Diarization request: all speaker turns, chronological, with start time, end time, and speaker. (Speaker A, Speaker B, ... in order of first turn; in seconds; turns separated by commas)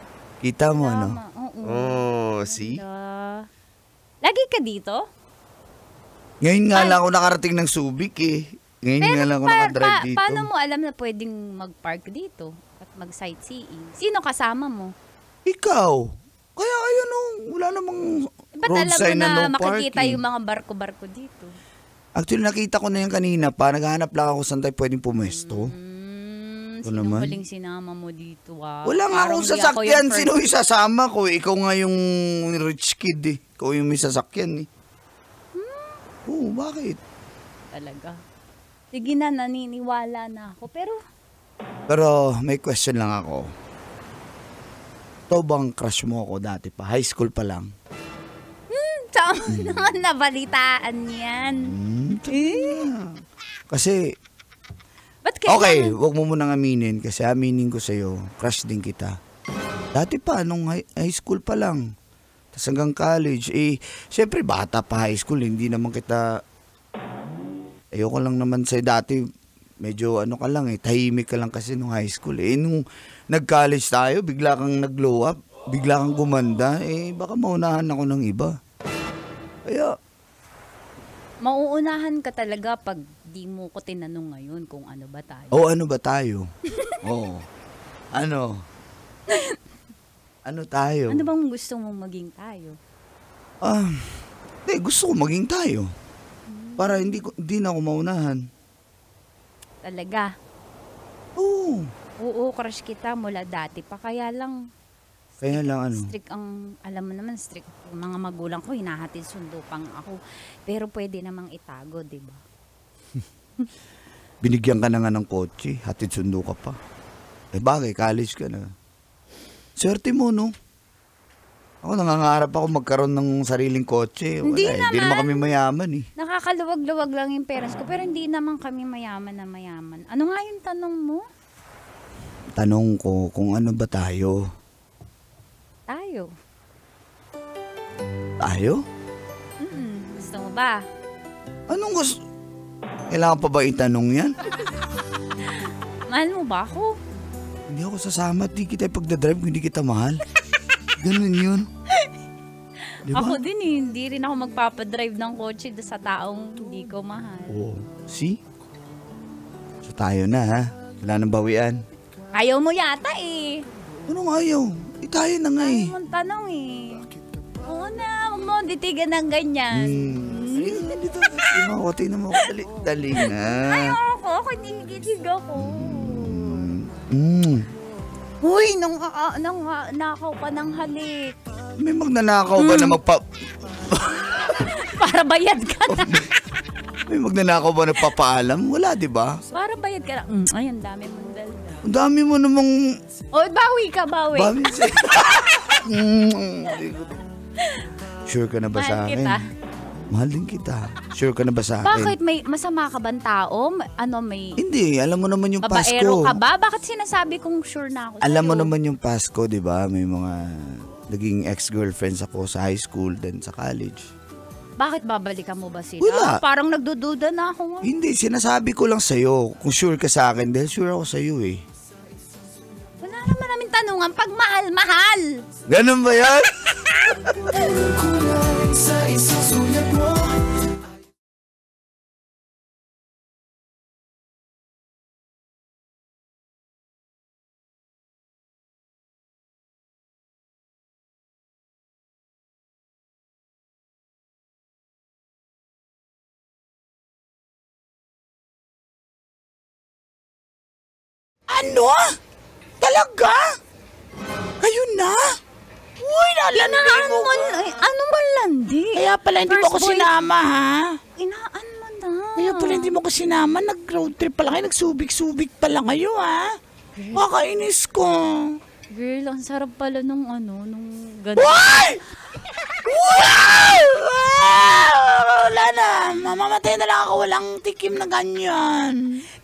Speaker A: 0.4-1.2, Speaker B: 0.8-3.5, Speaker A: 1.8-2.8, Speaker B: 4.2-5.0, Speaker A: 6.4-10.5, Speaker B: 6.7-7.0, Speaker B: 9.0-14.9, Speaker A: 15.5-18.1, Speaker B: 18.6-21.5, Speaker A: 18.7-20.2, Speaker A: 22.2-25.7, Speaker B: 25.3-30.4, Speaker A: 26.9-27.4, Speaker A: 28.9-34.7, Speaker B: 35.5-36.0, Speaker A: 36.3-37.0, Speaker B: 37.7-38.2, Speaker B: 38.9-41.0, Speaker A: 41.9-43.5, Speaker A: 45.3-47.7, Speaker B: 48.7-51.7, Speaker A: 49.5-49.8, Speaker A: 51.6-53.1, Speaker B: 52.3-52.9, Speaker A: 53.7-54.1, Speaker B: 55.3-56.0, Speaker A: 55.5-59.2, Speaker A: 59.9-61.9, Speaker A: 62.5-66.4, Speaker A: 67.9-69.2, Speaker A: 69.8-78.6, Speaker A: 79.7-80.0, Speaker B: 81.4-85.6, Speaker A: 85.5-86.5, Speaker A: 87.0-87.5, Speaker A: 88.1-88.7, Speaker B: 89.3-89.6, Speaker A: 90.5-91.3, Speaker B: 91.1-92.8, Speaker A: 93.6-95.9, Speaker B: 96.5-97.3, Speaker A: 96.8-98.4, Speaker B: 99.8-100.3, Speaker A: 101.4-101.9, Speaker B: 102.2-104.6, Speaker A: 105.4-106.1, Speaker B: 105.4-112.4, Speaker A: 114.4-116.8, Speaker A: 117.5-118.7, Speaker A: 119.8-120.5, Speaker A: 121.8-126.1, Speaker B: 124.5-125.5, Speaker B: 126.2-131.2, Speaker A: 132.6-134.5, Speaker B: 135.9-136.3, Speaker A: 138.4-138.8, Speaker B: 139.6-140.9, Speaker A: 141.7-142.2, Speaker A: 143.1-144.4, Speaker B: 146.1-147.0, Speaker A: 147.7-150.2, Speaker A: 151.0-151.7, Speaker A: 153.0-153.4, Speaker B: 153.1-157.6, Speaker A: 157.5-158.4, Speaker A: 159.8-161.8, Speaker B: 162.3-163.6, Speaker A: 164.1-165.9, Speaker B: 165.6-167.1, Speaker B: 167.6-171.6, Speaker A: 169.7-174.0, Speaker B: 173.2-176.6, Speaker A: 175.6-177.7, Speaker B: 178.4-181.4, Speaker A: 181.8-184.6, Speaker B: 182.6-183.0, Speaker B: 184.6-186.3, Speaker A: 185.9-186.3, Speaker A: 187.1-189.4, Speaker B: 189.5-191.8, Speaker A: 191.8-192.8, Speaker B: 193.3-195.8, Speaker A: 194.3-197.2, Speaker B: 197.6-197.9, Speaker A: 198.3-199.4, Speaker B: 198.7-199.4, Speaker A: 200.1-202.2, Speaker B: 201.8-204.6, Speaker A: 204.6-206.4, Speaker B: 205.6-208.7, Speaker A: 208.2-214.1, Speaker B: 214.8-217.9, Speaker A: 216.0-216.4, Speaker A: 217.8-221.6, Speaker B: 223.0-225.4, Speaker A: 225.7-227.3, Speaker C: 228.0-230.3, Speaker C: 251.5-252.1, Speaker C: 252.8-253.4, Speaker C: 254.6-255.3, Speaker C: 256.0-257.5, Speaker B: 256.5-260.1, Speaker C: 258.9-261.0, Speaker B: 261.2-262.9, Speaker C: 262.4-266.5, Speaker B: 267.0-267.3, Speaker C: 267.1-268.6, Speaker B: 268.9-271.7, Speaker C: 271.4-272.0, Speaker C: 272.9-279.2